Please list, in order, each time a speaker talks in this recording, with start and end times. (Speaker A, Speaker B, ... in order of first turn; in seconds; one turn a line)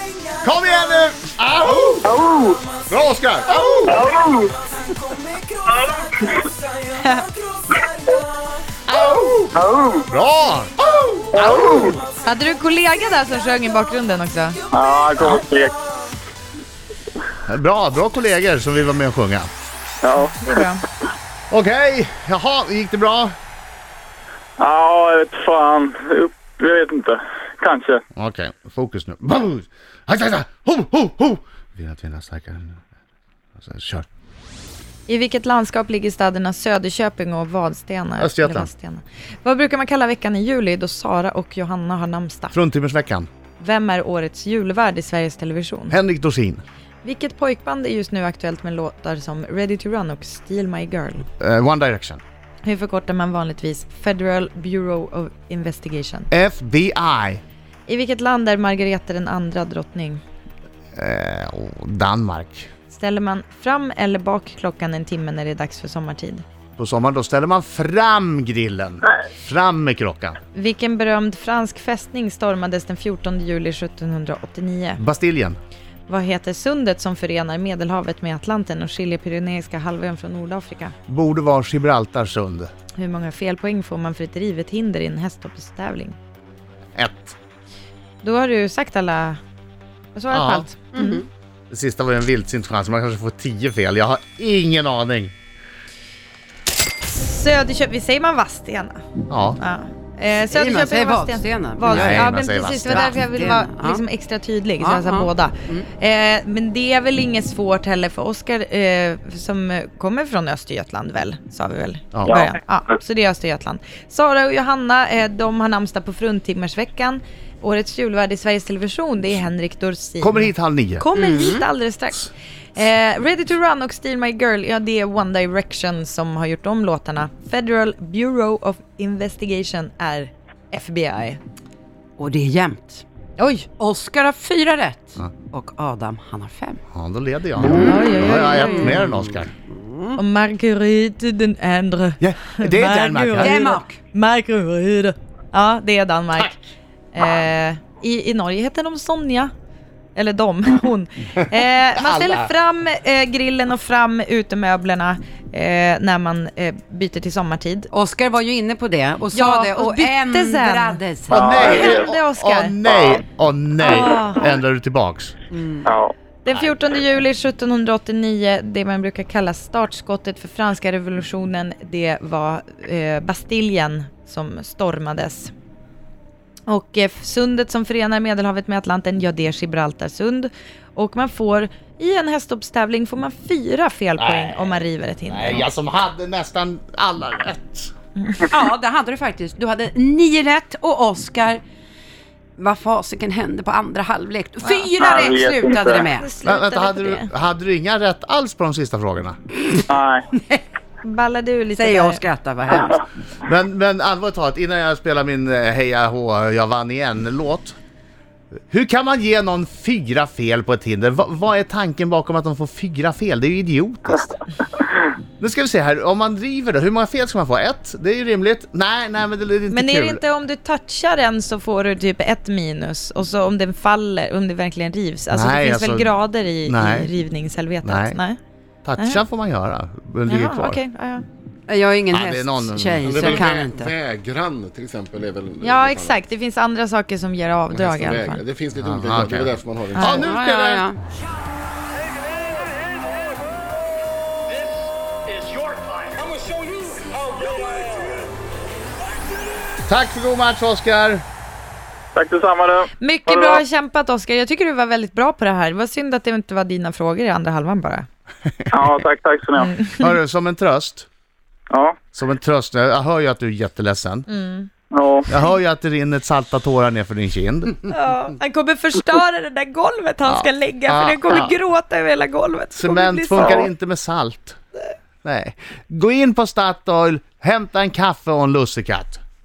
Speaker A: 0.4-2.2
Speaker B: 2.0-2.6
Speaker A: 2.9-4.1
Speaker B: 3.9-4.5
Speaker C: 5.2-6.3
Speaker B: 5.9-6.4
Speaker D: 7.0-7.2
Speaker A: 8.9-9.6
Speaker B: 9.5-10.1
Speaker A: 10.1-12.0
Speaker B: 11.3-12.0
Speaker D: 12.2-14.6
Speaker B: 14.7-15.7
Speaker A: 17.5-19.5
Speaker B: 20.0-20.7
Speaker D: 20.4-20.8
Speaker A: 21.5-23.3
Speaker B: 24.6-28.0
Speaker A: 28.1-32.8
Speaker A: 33.5-34.0
Speaker D: 35.1-42.5
Speaker A: 38.2-38.7
Speaker A: 42.5-43.3
Speaker D: 43.6-46.0
Speaker A: 45.9-46.6
Speaker D: 47.0-51.3
Speaker A: 51.4-52.2
Speaker D: 52.6-56.3
Speaker A: 56.3-57.4
Speaker D: 57.9-60.2
Speaker A: 61.0-62.7
Speaker D: 62.9-66.4
Speaker A: 66.8-70.4
Speaker D: 70.5-75.0
Speaker A: 75.0-75.6
Speaker D: 76.1-80.9
Speaker A: 81.1-82.7
Speaker D: 83.0-86.2
Speaker A: 87.0-87.3
Speaker D: 88.2-89.4
Speaker D: 90.1-91.2
Speaker A: 90.3-90.7
Speaker C: 90.9-91.2
Speaker A: 91.7-95.3
Speaker D: 97.0-99.0
Speaker A: 99.3-99.6
Speaker D: 99.6-131.4
Speaker C: 100.5-102.3
Speaker A: 101.9-103.2
Speaker C: 102.9-104.0
Speaker C: 104.8-105.9
Speaker A: 112.1-112.4
Speaker A: 120.2-121.1
Speaker C: 121.2-121.6
Speaker C: 132.2-136.8
Speaker A: 136.9-139.5
Speaker C: 137.6-140.2
Speaker D: 137.7-139.0
Speaker D: 140.2-146.6
Speaker A: 142.2-143.7
Speaker C: 143.4-144.0
Speaker D: 147.1-149.5
Speaker D: 150.1-157.9
Speaker A: 152.0-152.5
Speaker C: 157.9-161.5
Speaker D: 159.3-162.8
Speaker A: 161.3-165.3
Speaker B: 161.5-162.1
Speaker D: 163.8-164.4
Speaker C: 165.5-165.9
Speaker B: 165.8-166.1
Speaker D: 166.4-175.5
Speaker D: 176.7-185.7
Speaker A: 184.2-187.9
Speaker C: 188.4-191.6
Speaker C: 192.6-196.2
Speaker D: 194.6-195.2
Speaker B: 195.0-196.1
Speaker D: 196.1-197.3
Speaker A: 196.4-199.3
Speaker B: 199.9-200.3
Speaker D: 201.0-202.2
Speaker C: 201.7-203.0
Speaker A: 203.4-207.7
Speaker A: 208.7-214.3
Speaker A: 215.4-220.2
Speaker D: 219.7-228.4
Speaker A: 225.3-227.1
Speaker A: 227.8-228.2
Speaker A: 228.8-230.8
Speaker D: 229.0-229.2
Speaker D: 230.3-231.2
Speaker C: 231.7-234.0
Speaker A: 232.1-233.4
Speaker E: 233.3-236.1
Speaker D: 235.6-238.4
Speaker E: 237.7-240.1
Speaker A: 238.8-240.9
Speaker D: 239.9-240.3
Speaker C: 240.1-241.0
Speaker A: 249.9-251.2
Speaker B: 252.1-253.6
Speaker D: 253.0-258.1
Speaker B: 258.7-259.7
Speaker A: 259.8-261.1
Speaker B: 261.7-262.0
Speaker A: 262.1-264.3
Speaker D: 264.3-264.7
Speaker B: 264.9-265.3
Speaker A: 265.3-267.9
Speaker D: 267.9-273.7
Speaker A: 270.3-271.5
Speaker A: 272.7-274.6
Speaker B: 273.4-273.7
Speaker A: 275.2-279.2